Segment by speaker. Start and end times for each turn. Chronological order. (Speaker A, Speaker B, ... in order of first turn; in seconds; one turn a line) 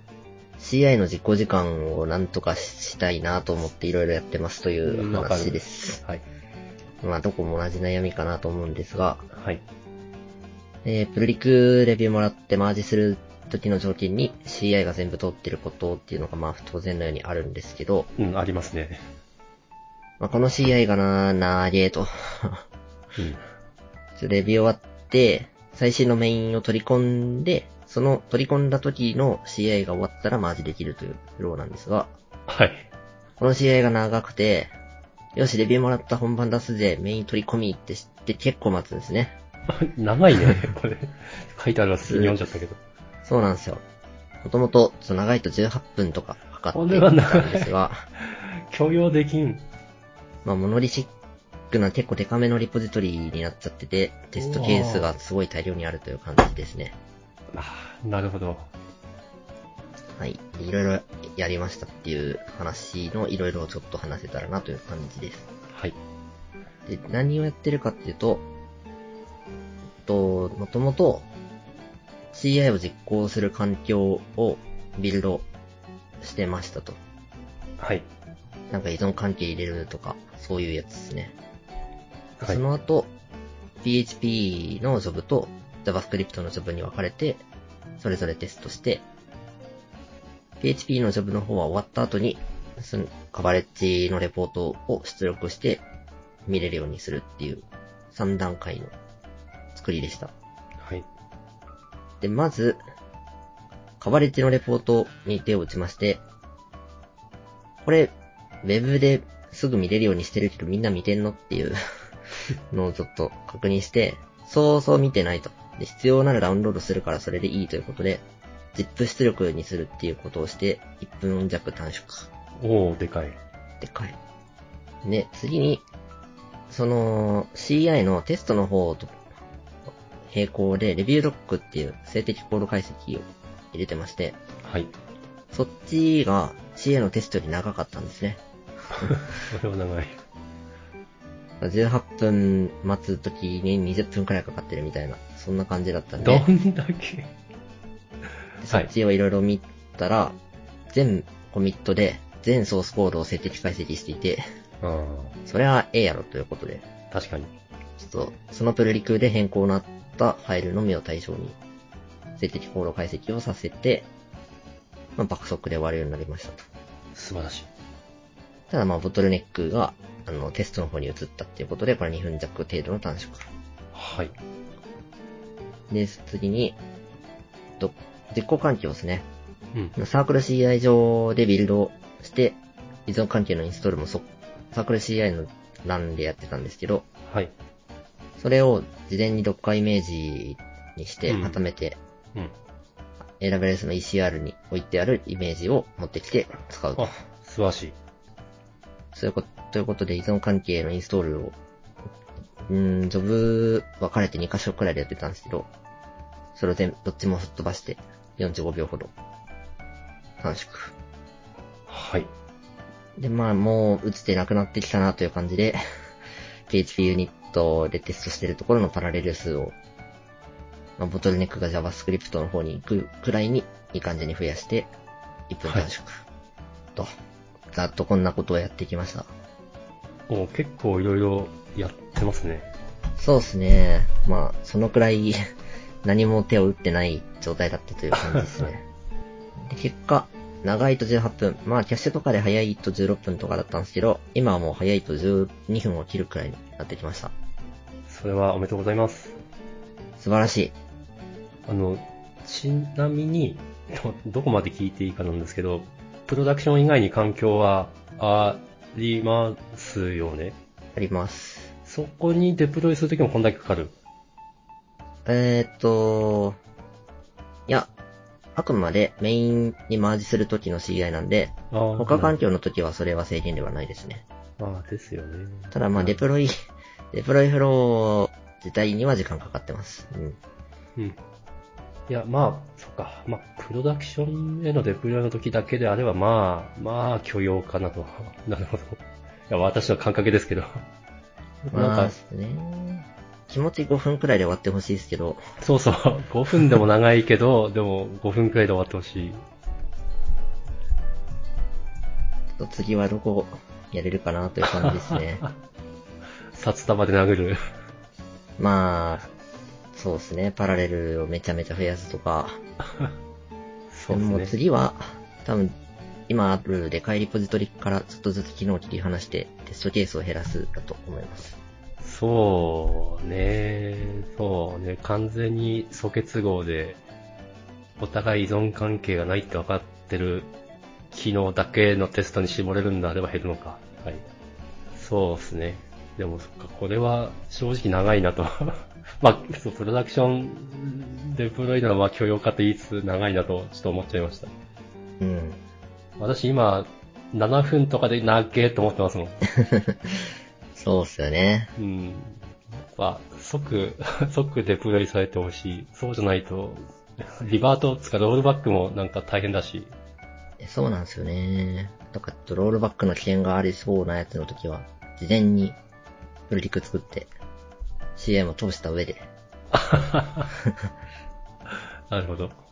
Speaker A: 0.6-6.0
Speaker B: 4.8-6.2
Speaker A: 7.0-9.3
Speaker B: 9.3-9.6
Speaker A: 10.8-18.1
Speaker B: 18.2-19.0
Speaker A: 20.2-22.6
Speaker B: 23.1-23.4
Speaker A: 24.2-32.1
Speaker B: 32.5-32.9
Speaker A: 33.4-34.7
Speaker A: 35.3-39.3
Speaker B: 39.7-42.8
Speaker A: 42.1-42.4
Speaker A: 43.2-43.8
Speaker A: 44.4-48.0
Speaker B: 46.7-49.6
Speaker A: 50.4-51.1
Speaker A: 51.7-57.0
Speaker B: 54.4-55.1
Speaker B: 57.5-58.7
Speaker A: 60.2-65.5
Speaker B: 65.7-66.0
Speaker A: 66.8-68.4
Speaker A: 70.0-71.3
Speaker A: 72.3-75.5
Speaker A: 76.2-77.0
Speaker B: 77.8-78.1
Speaker A: 78.7-81.3
Speaker A: 82.4-83.1
Speaker A: 83.8-87.4
Speaker A: 88.0-89.0
Speaker A: 90.6-95.8
Speaker A: 96.5-98.9
Speaker A: 99.7-100.3
Speaker A: 102.2-102.8
Speaker A: 104.0-106.2
Speaker A: 107.8-108.1
Speaker A: 108.6-111.8
Speaker A: 112.7-118.2
Speaker A: 118.7-122.3
Speaker B: 122.6-123.4
Speaker A: 123.8-124.2
Speaker A: 125.0-125.8
Speaker A: 126.7-129.1
Speaker A: 130.2-134.4
Speaker B: 134.6-134.9
Speaker A: 135.5-138.4
Speaker B: 139.0-140.2
Speaker A: 141.6-146.4
Speaker B: 146.2-147.3
Speaker A: 148.6-150.4
Speaker A: 150.9-154.4
Speaker B: 154.8-155.3
Speaker A: 155.4-156.8
Speaker B: 157.1-157.5
Speaker A: 158.0-161.6
Speaker A: 162.4-164.1
Speaker A: 165.2-166.7
Speaker B: 167.1-167.7
Speaker A: 168.7-173.5
Speaker B: 173.9-174.3
Speaker A: 175.9-176.8
Speaker A: 177.8-179.3
Speaker A: 179.9-187.1
Speaker B: 187.3-187.5
Speaker A: 188.4-192.0
Speaker B: 191.3-191.6
Speaker A: 193.4-197.1
Speaker B: 197.0-197.9
Speaker A: 199.1-201.6
Speaker A: 202.6-205.7
Speaker A: 206.6-209.1
Speaker A: 210.4-210.9
Speaker B: 211.9-212.3
Speaker A: 213.2-215.8
Speaker A: 216.7-219.8
Speaker A: 221.0-224.9
Speaker A: 225.5-226.2
Speaker A: 227.7-229.3
Speaker B: 230.3-232.7
Speaker A: 233.2-235.4
Speaker A: 236.0-238.8
Speaker B: 238.1-238.6
Speaker A: 239.6-247.3
Speaker B: 248.1-249.4
Speaker A: 250.2-250.7
Speaker B: 251.7-260.6
Speaker A: 260.9-261.7
Speaker B: 261.8-263.9
Speaker A: 265.2-266.6
Speaker A: 268.5-274.2
Speaker B: 271.7-272.4
Speaker B: 274.6-276.2
Speaker A: 275.7-276.5
Speaker A: 277.1-280.4
Speaker B: 282.1-290.8
Speaker B: 291.7-292.1
Speaker A: 291.7-295.4
Speaker B: 295.6-299.4
Speaker A: 302.6-305.4
Speaker B: 304.7-305.5
Speaker B: 306.5-307.6
Speaker A: 308.6-309.3
Speaker A: 309.9-312.6
Speaker B: 313.9-314.5
Speaker A: 314.1-315.7
Speaker A: 316.3-321.6
Speaker B: 322.0-327.0
Speaker B: 328.0-330.5
Speaker B: 331.1-334.2
Speaker B: 334.9-344.5
Speaker A: 345.2-345.6
Speaker B: 346.2-349.4
Speaker A: 349.5-351.7
Speaker B: 351.8-359.9
Speaker A: 360.6-365.8
Speaker A: 366.5-367.3
Speaker A: 368.1-369.3
Speaker B: 369.7-370.5
Speaker A: 370.6-370.9
Speaker B: 372.1-372.6